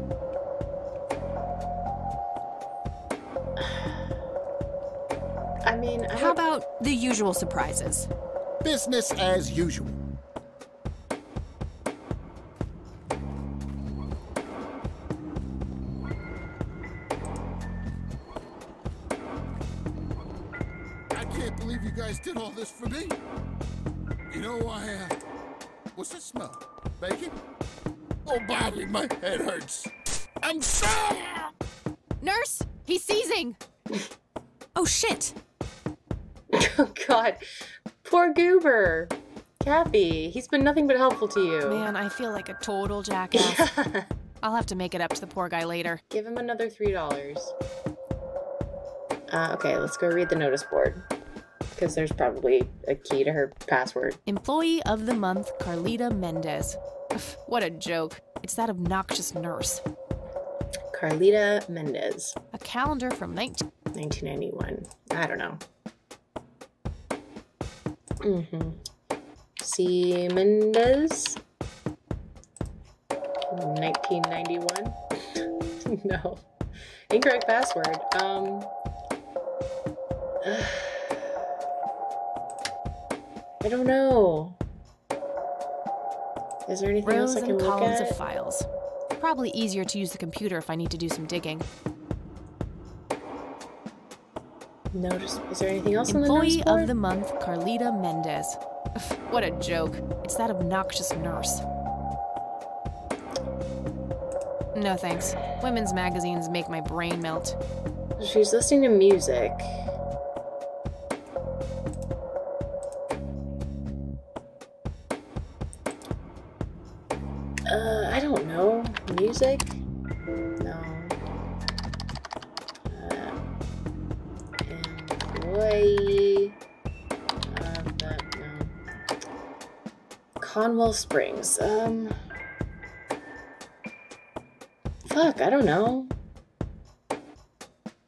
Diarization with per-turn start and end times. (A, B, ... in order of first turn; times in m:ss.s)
0:03.6-0:04.1 A
0:05.6-0:06.4 A
0:06.1-0:08.1 B
0:08.6-0:10.0 C
0:21.1-0:23.2 C
0:24.3-0:25.1 C
0:26.0-0:27.3 C
0:28.2-0:29.9 C
0:30.4-0:31.5 C
0:32.2-0:33.6 B
0:34.8-0:35.3 B
0:36.5-0:37.4 A
0:38.0-0:41.9 A
0:41.6-0:43.7 B
0:43.3-0:44.1 A
0:44.4-0:46.0 B
0:46.1-0:47.5 A
0:49.3-0:51.0 A
0:51.7-0:54.2 A
0:54.3-0:59.8 B
1:00.9-1:02.4 A
1:02.5-1:03.6 B
1:03.9-1:05.6 A
1:08.2-1:08.8 A
1:09.6-1:11.4 A
1:13.5-1:16.4 A
1:17.1-1:18.7 A
1:20.4-1:21.3 A
1:23.6-1:24.6 A
1:26.6-1:28.2 A
1:27.0-1:28.6 B
1:29.2-1:31.7 B
1:34.9-1:36.9 A
1:36.1-1:41.6 B
1:44.7-1:47.6 B
1:48.2-1:49.8 A
1:57.7-1:59.8 A
2:00.6-2:01.2 A
2:02.8-2:03.4 A
2:04.6-2:06.6 A
2:07.4-2:08.8 A
2:10.4-2:12.1 A
2:15.1-2:16.1 A